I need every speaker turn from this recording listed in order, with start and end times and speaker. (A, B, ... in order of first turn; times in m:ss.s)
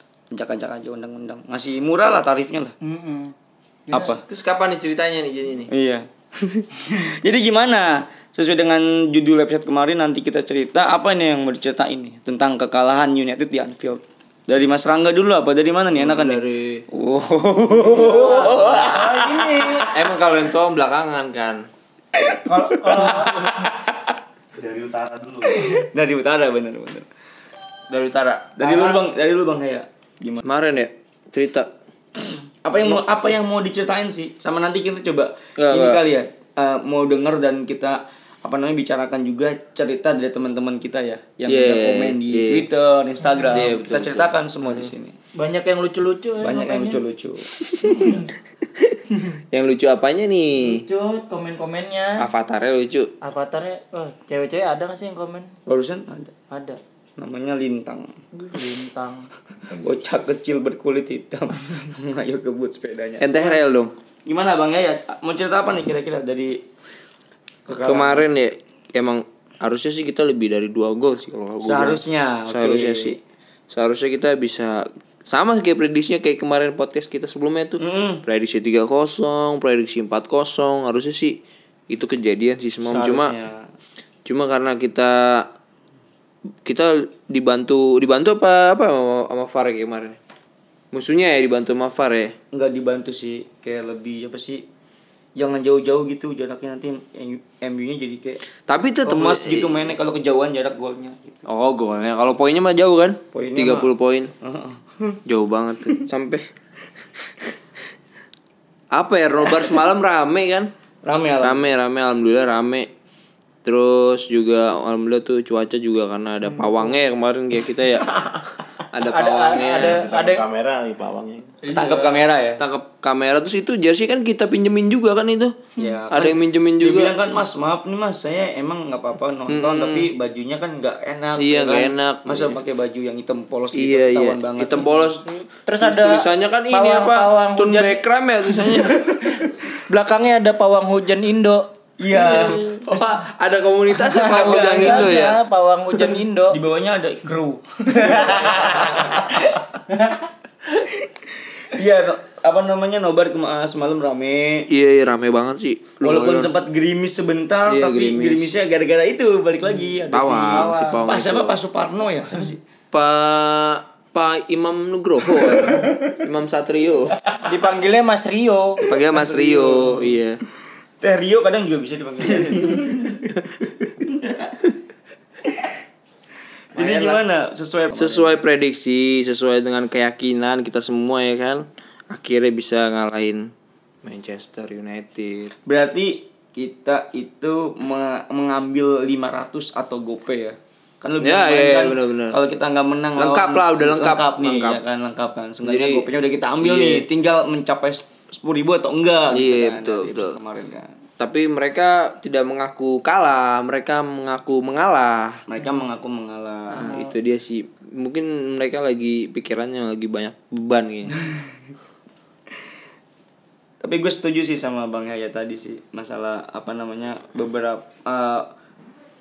0:00.3-0:02.7 A
0:02.8-0:03.3 B
0:03.9-0:04.2 B
0:03.9-0:04.2 A
0:04.2-0:05.7 C
0:05.7-0:19.9 A
0:15.9-0:16.8 C
0:17.7-0:19.9 B
0:18.4-0:19.0 C
0:19.8-0:21.6 C
0:22.2-0:24.0 A
0:22.4-0:23.7 B
0:24.6-0:25.8 D
0:25.5-0:27.0 A
0:27.9-0:28.6 C
0:28.6-0:30.4 A
0:28.7-0:28.9 B
0:30.4-0:31.7 C
0:32.6-0:45.2 A
0:35.6-0:36.0 C
0:41.5-0:42.7 C
0:43.2-0:43.5 B
0:43.5-0:44.9 C
0:45.3-0:47.0 B
0:46.4-0:47.5 A
0:47.6-0:48.2 C
0:47.9-0:48.2 B
0:49.5-0:50.8 C
0:50.6-0:52.2 B
0:52.2-0:53.1 C
0:53.2-0:55.5 B
0:55.7-0:56.3 A
0:56.5-0:56.8 B
0:57.2-0:58.1 A
0:58.4-0:59.3 B
0:59.7-1:00.1 D
0:59.8-1:03.6 A
1:03.2-1:03.9 C
1:04.2-1:06.6 A
1:07.7-1:08.2 A
1:07.8-1:13.2 C
1:11.6-1:13.2 A
1:13.7-1:21.4 C
1:17.8-1:18.2 A
1:21.9-1:23.3 C
1:22.8-1:23.7 A
1:24.2-1:25.5 C
1:26.6-1:30.2 C
1:30.9-1:32.3 C
1:32.5-1:34.6 A
1:35.4-1:38.4 A
1:38.7-1:39.9 C
1:39.0-1:41.4 A
1:41.5-1:44.3 C
1:43.3-1:45.2 A
1:45.2-1:46.5 C
1:48.9-1:50.7 C
1:51.0-1:51.7 A
1:51.4-1:52.9 C
1:53.6-1:58.3 C
1:56.5-1:57.0 B
1:58.9-2:00.0 C
1:59.0-2:00.4 B
1:59.5-2:01.5 D
2:01.6-2:07.2 C
2:01.7-2:02.6 A
2:05.8-2:15.1 A
2:09.5-2:10.1 C
2:11.4-2:12.6 C
2:13.7-2:15.2 C
2:15.3-2:18.0 B
2:15.8-2:19.1 C
2:18.5-2:23.0 B
2:22.0-2:22.6 A
2:22.9-2:25.4 C
2:24.0-2:26.6 B
2:24.2-2:25.2 A
2:26.0-2:29.6 A
2:27.9-2:28.6 B
2:30.7-2:31.1 A
2:31.6-2:34.7 A
2:34.7-2:36.5 C
2:36.0-2:42.6 A
2:37.7-2:38.5 C
2:40.1-2:41.6 C
2:40.5-2:41.1 B
2:42.9-2:47.2 C
2:47.4-2:48.8 B
2:48.9-2:50.4 C
2:48.9-2:50.2 A
2:51.0-2:54.4 A
2:56.7-2:58.4 A
2:56.8-2:57.2 C
2:57.9-3:03.5 C
3:04.0-3:05.5 C
3:05.6-3:20.9 A
3:11.2-3:12.4 C
3:13.2-3:14.8 C
3:15.6-3:16.0 C
3:16.6-3:17.0 C
3:19.3-3:20.4 C
3:21.2-3:25.4 C
3:25.5-3:27.0 A
3:26.7-3:31.2 C
3:26.8-3:27.1 B
3:33.8-3:38.5 A